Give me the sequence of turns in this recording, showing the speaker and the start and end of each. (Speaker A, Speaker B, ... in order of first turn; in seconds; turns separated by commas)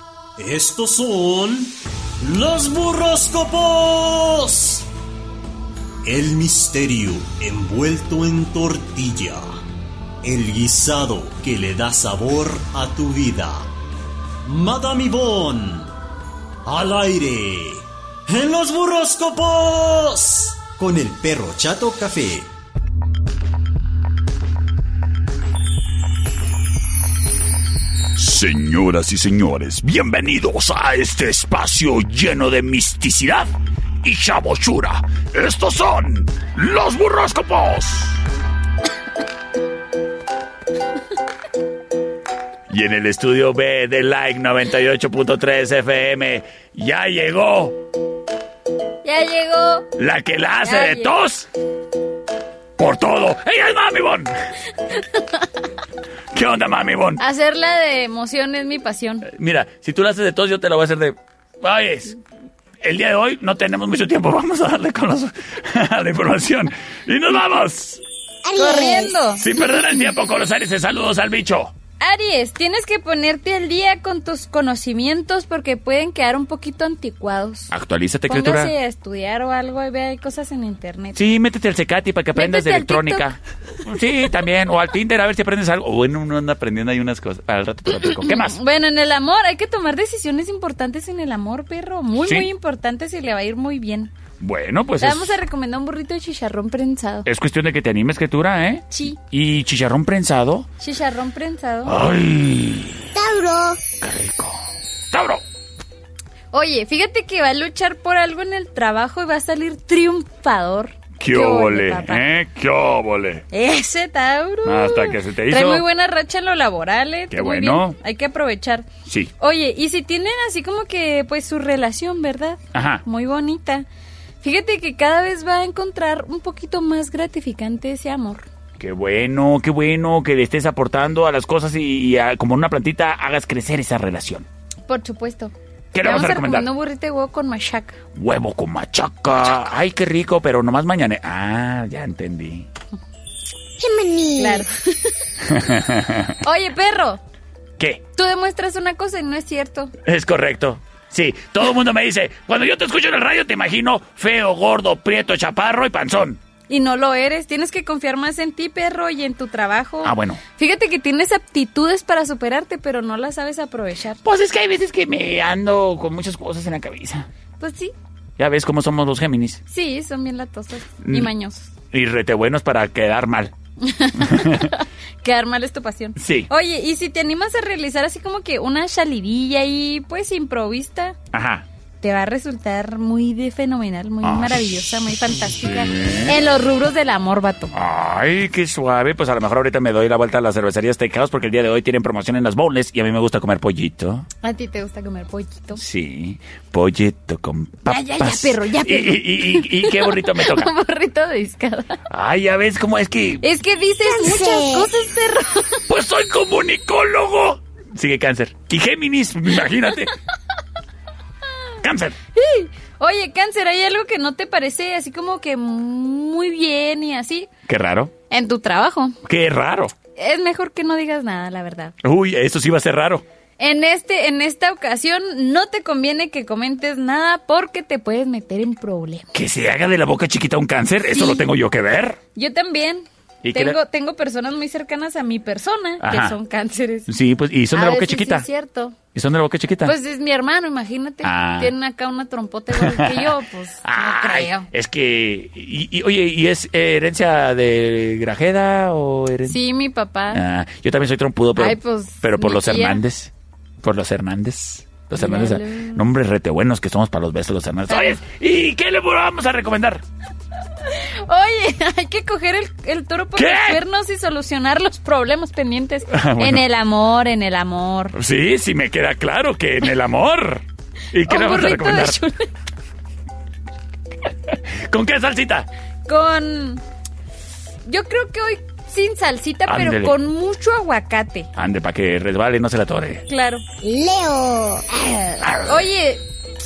Speaker A: 0.4-4.9, Speaker A: 6.0-9.6, Speaker A: 10.2-13.7, Speaker A: 14.5-15.9, Speaker A: 16.6-22.5, Speaker B: 28.2-33.5, Speaker B: 34.0-38.2, Speaker B: 42.7-47.8, Speaker C: 49.0-49.9, Speaker B: 50.0-51.5, Speaker C: 50.6-51.1, Speaker B: 52.8-54.3, Speaker C: 54.9-55.6, Speaker B: 56.3-57.2, Speaker C: 57.2-59.3, Speaker B: 59.3-62.2, Speaker B: 62.8-68.0, Speaker D: 68.5-69.1, Speaker C: 68.5-69.5, Speaker B: 69.3-71.7, Speaker C: 72.0-77.7, Speaker B: 77.7-78.7, Speaker C: 78.3-81.2, Speaker B: 81.2-88.6, Speaker C: 82.3-83.3, Speaker C: 88.0-94.1, Speaker B: 92.2-92.5, Speaker B: 94.4-95.4, Speaker C: 95.0-97.3, Speaker B: 97.2-100.7, Speaker C: 98.9-99.2, Speaker C: 100.8-102.0, Speaker B: 101.9-103.1, Speaker D: 103.2-103.8, Speaker B: 104.0-105.4, Speaker C: 106.5-112.3, Speaker B: 111.2-113.5, Speaker C: 113.5-118.9, Speaker B: 114.7-115.8, Speaker B: 117.3-118.0, Speaker B: 119.1-119.3, Speaker C: 119.4-123.9, Speaker B: 122.7-123.0, Speaker C: 124.4-128.4, Speaker B: 128.8-134.5, Speaker C: 134.9-138.0, Speaker B: 135.9-136.7, Speaker B: 138.2-142.7, Speaker D: 143.8-144.7, Speaker C: 144.4-145.2, Speaker B: 145.4-146.4, Speaker C: 146.4-147.2, Speaker C: 148.2-149.9, Speaker B: 150.0-156.4, Speaker C: 156.7-164.2, Speaker B: 160.0-160.4, Speaker B: 164.2-167.3, Speaker C: 167.6-167.9, Speaker B: 168.4-169.6, Speaker C: 169.7-171.7, Speaker B: 171.0-171.3, Speaker B: 171.9-173.5, Speaker C: 173.8-181.2, Speaker B: 174.2-174.7, Speaker B: 176.2-176.5, Speaker B: 181.3-181.7, Speaker C: 182.0-187.7, Speaker B: 184.2-184.9, Speaker B: 185.5-186.4, Speaker B: 187.7-194.3, Speaker C: 194.4-195.8, Speaker B: 195.7-200.7, Speaker C: 197.9-202.0, Speaker B: 202.1-203.5, Speaker C: 203.4-205.8, Speaker D: 204.1-204.9, Speaker B: 205.9-210.1, Speaker B: 211.8-212.2, Speaker C: 212.3-217.5, Speaker B: 217.7-218.1, Speaker C: 218.3-219.2, Speaker B: 219.2-219.9, Speaker C: 220.2-221.9, Speaker B: 222.0-223.2, Speaker C: 223.6-229.3, Speaker B: 229.3-232.2, Speaker C: 231.1-231.5, Speaker C: 232.3-237.1, Speaker B: 233.4-233.8, Speaker B: 236.0-236.4, Speaker B: 237.1-238.5, Speaker C: 237.7-239.0, Speaker B: 239.1-239.9, Speaker C: 239.8-244.7, Speaker B: 241.2-241.7, Speaker B: 242.7-249.6, Speaker C: 249.5-250.4, Speaker B: 250.3-253.3, Speaker C: 251.6-253.0, Speaker B: 253.8-260.0, Speaker C: 255.2-256.0, Speaker C: 257.9-258.2, Speaker C: 260.8-268.1, Speaker B: 263.4-263.8, Speaker B: 266.1-266.6, Speaker B: 268.1-272.2, Speaker C: 271.2-272.5, Speaker B: 274.5-275.7, Speaker C: 276.1-276.8, Speaker C: 277.9-281.5, Speaker B: 279.7-280.1, Speaker B: 281.6-283.2, Speaker C: 283.3-283.6, Speaker D: 283.8-285.4, Speaker B: 285.4-285.9, Speaker C: 285.7-286.2